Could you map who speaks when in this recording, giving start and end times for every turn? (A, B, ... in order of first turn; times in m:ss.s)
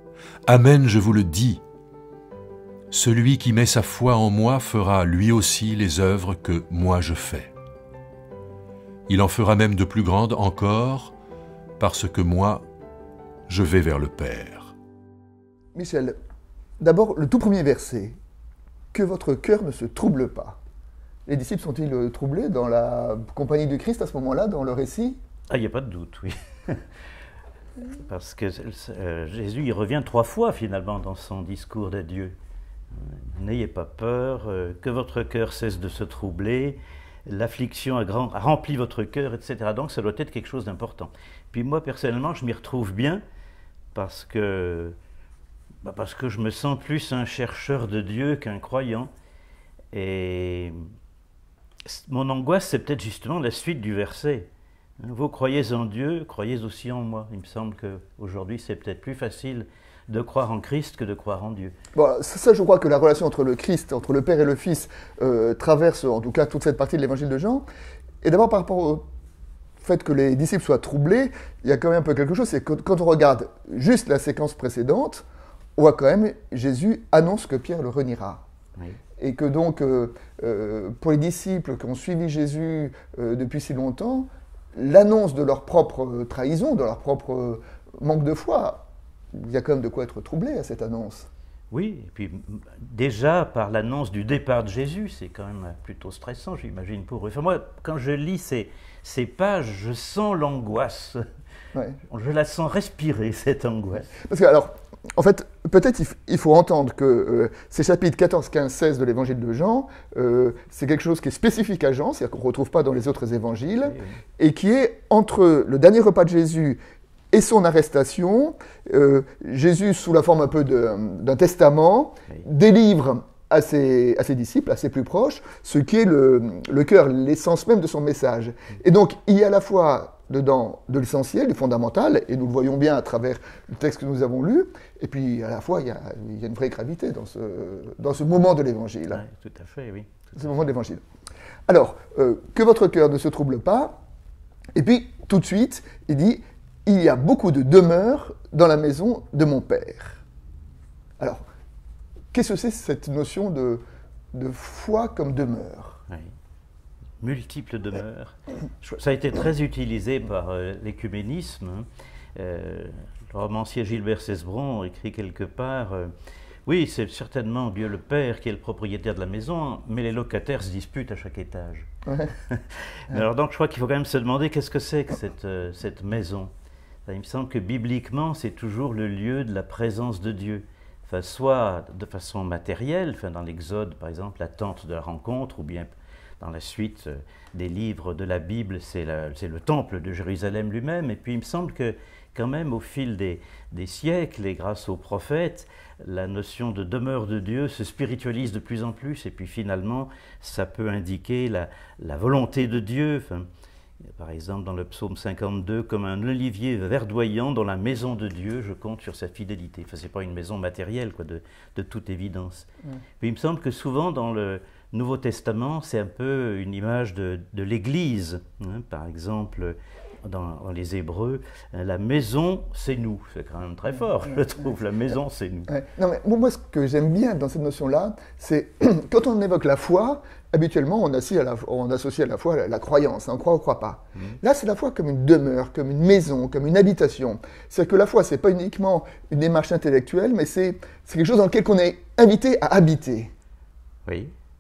0:00.5-0:01.6 A
0:02.9-0:07.5 A
0:09.1-0:11.1 A
0:11.8-0:12.7 A
0:13.5-0:14.7 A
0:15.7-0:16.2 B
0:16.8-0:18.2 B
0:18.9-0:20.6 B
0:21.3-0:25.2 B
0:25.5-0:26.8 C
0:28.0-0:32.3 C
0:32.9-0:43.2 C
0:43.9-0:44.9 C
0:45.8-0:49.1 C
0:49.9-0:50.8 C
0:51.8-0:54.5 C
0:55.0-1:01.7 C
1:01.9-1:07.6 B
1:08.2-1:09.0 B
1:09.8-1:15.2 B
1:15.8-1:18.4 B
1:19.2-1:31.3 B
1:31.7-1:41.2 C
1:42.1-1:44.1 C
1:44.2-1:56.8 B
1:53.8-1:54.2 C
1:57.3-2:19.2 B
2:19.1-2:20.2 C
2:20.3-2:21.0 B
2:21.7-2:24.0 B
2:24.7-2:30.2 B
2:32.3-2:33.8 B
2:34.3-2:36.0 B
2:37.2-2:46.1 C
2:46.6-2:56.5 C
2:57.0-3:05.9 C
3:06.4-3:23.5 C
3:24.2-3:32.7 C
3:33.2-3:45.7 C
3:45.7-4:03.3 B
4:04.0-4:04.3 C